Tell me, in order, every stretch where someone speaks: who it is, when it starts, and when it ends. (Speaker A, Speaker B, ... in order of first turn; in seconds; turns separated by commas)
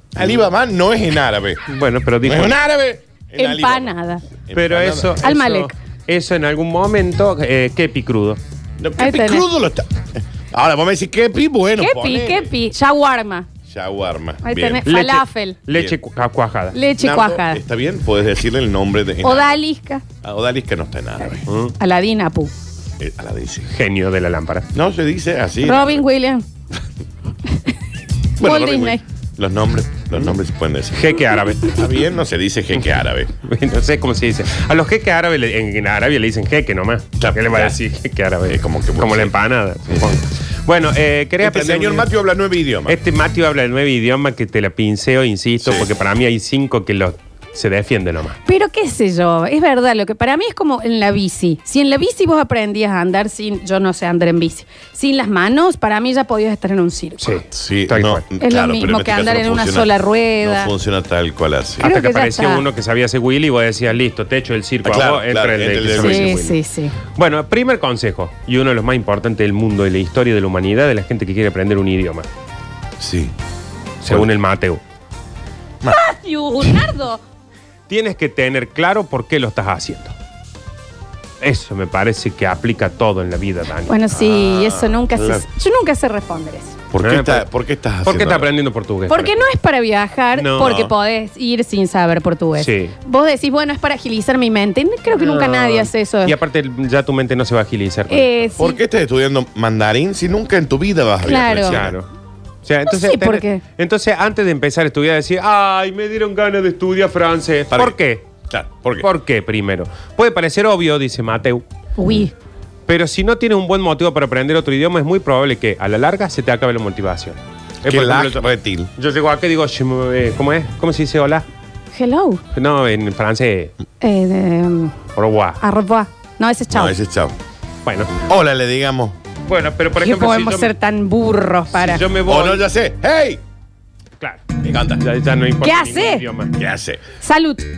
Speaker A: 0.1-1.6, Speaker B: 1.7-2.6, Speaker A: 2.2-3.9, Speaker C: 3.4-4.2, Speaker A: 4.4-5.2, Speaker B: 4.5-8.4, Speaker C: 5.2-5.7, Speaker A: 8.8-12.5, Speaker C: 9.0-9.4, Speaker C: 11.8-13.5, Speaker A: 13.7-14.8, Speaker C: 14.4-15.6, Speaker B: 14.8-16.8, Speaker C: 16.7-17.6, Speaker A: 17.0-19.6, Speaker C: 19.2-20.0, Speaker A: 20.2-21.4, Speaker C: 21.2-22.5, Speaker B: 21.5-21.7, Speaker A: 23.0-23.7, Speaker B: 23.7-24.7, Speaker A: 24.7-26.0, Speaker C: 25.6-26.4, Speaker A: 28.4-33.3, Speaker C: 28.4-29.0, Speaker B: 30.9-31.9, Speaker B: 33.4-42.1, Speaker A: 37.2-37.8, Speaker A: 38.5-39.3, Speaker A: 41.4-43.0, Speaker B: 42.9-48.4, Speaker C: 48.5-57.3, Speaker B: 57.2-58.2, Speaker A: 57.5-61.9, Speaker C: 58.4-60.7, Speaker C: 61.8-62.6, Speaker B: 61.8-66.6, Speaker A: 64.8-66.3, Speaker C: 66.0-66.9, Speaker B: 67.1-72.2, Speaker A: 73.0-73.3, Speaker B: 74.0-74.8, Speaker C: 75.9-77.2, Speaker B: 77.9-80.1, Speaker B: 81.4-83.9, Speaker C: 83.9-86.8, Speaker A: 84.1-85.4, Speaker A: 86.9-88.5, Speaker B: 87.0-87.5, Speaker B: 88.0-89.4, Speaker C: 89.1-96.3, Speaker B: 90.3-90.8, Speaker A: 90.6-90.9, Speaker B: 92.6-92.9, Speaker B: 95.1-98.5, Speaker C: 98.1-98.8, Speaker A: 98.6-102.0, Speaker C: 101.2-101.8, Speaker B: 101.6-102.1, Speaker B: 102.6-108.2, Speaker C: 102.9-103.6, Speaker A: 107.7-108.0, Speaker A: 108.5-109.0, Speaker B: 109.0-111.6, Speaker C: 112.0-112.3, Speaker B: 112.9-118.4, Speaker A: 117.8-118.9, Speaker B: 119.0-121.4, Speaker C: 121.9-122.4, Speaker B: 122.5-123.7, Speaker C: 124.0-124.9, Speaker B: 125.2-125.6, Speaker C: 125.6-126.9, Speaker A: 126.7-127.3, Speaker B: 127.8-128.1, Speaker A: 128.2-129.1, Speaker B: 129.5-130.7, Speaker C: 130.0-132.0, Speaker B: 131.7-132.7, Speaker A: 132.2-133.4, Speaker A: 134.6-135.0, Speaker B: 135.0-136.5, Speaker C: 135.6-136.2, Speaker A: 136.6-137.0, Speaker C: 137.2-137.7